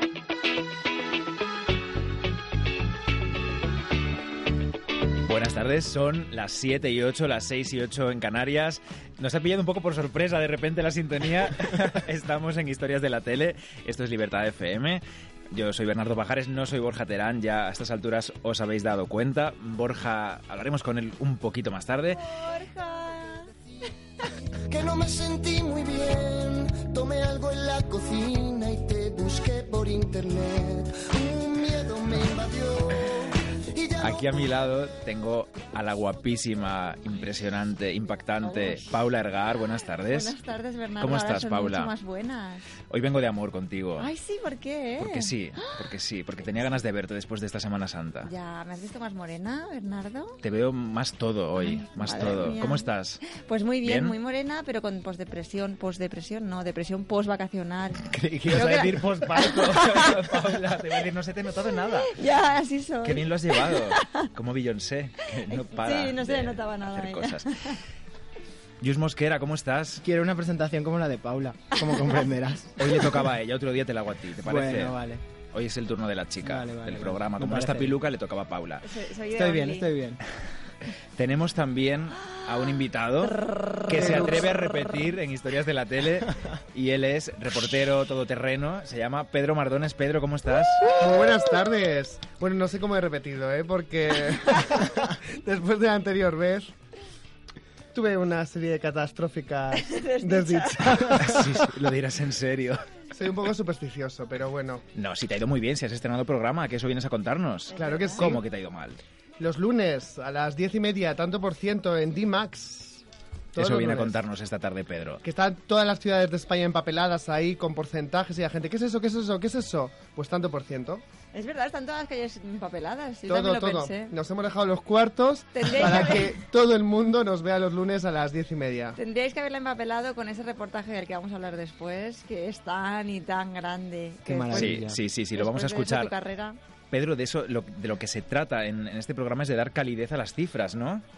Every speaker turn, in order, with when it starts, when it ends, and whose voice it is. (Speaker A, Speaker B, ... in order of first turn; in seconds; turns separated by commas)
Speaker A: 5.2-22.2, Speaker B: 22.3-23.5, Speaker C: 24.7-33.1, Speaker C: 33.8-34.2, Speaker A: 34.0-40.4, Speaker B: 38.4-38.9, Speaker B: 40.0-42.7, Speaker A: 41.0-41.9, Speaker A: 42.9-44.1, Speaker B: 44.0-45.9, Speaker A: 45.0-48.3, Speaker B: 48.2-50.4, Speaker A: 50.4-53.2, Speaker B: 51.6-60.2, Speaker A: 53.8-54.2, Speaker A: 58.1-62.2, Speaker B: 62.0-64.3, Speaker A: 63.0-67.8, Speaker B: 65.5-67.8, Speaker A: 68.8-70.0, Speaker D: 70.0-73.1, Speaker A: 72.8-75.0, Speaker D: 74.4-75.2, Speaker A: 75.5-78.8, Speaker D: 76.4-78.0, Speaker B: 78.8-79.9, Speaker D: 79.3-80.2, Speaker A: 81.2-90.9, Speaker E: 84.0-84.5, Speaker E: 91.0-96.7, Speaker E: 97.9-101.7, Speaker B: 99.8-101.1, Speaker A: 101.2-102.8, Speaker E: 103.1-104.8, Speaker A: 105.0-109.0, Speaker B: 107.7-108.2, Speaker E: 107.7-108.4, Speaker E: 109.4-114.2, Speaker A: 113.6-115.2, Speaker E: 115.2-121.0, Speaker B: 121.3-124.1, Speaker E: 123.3-129.0, Speaker B: 125.6-126.4, Speaker B: 129.0-134.7, Speaker D: 134.2-135.0, Speaker A: 134.5-136.1, Speaker B: 135.3-136.6, Speaker A: 136.9-141.0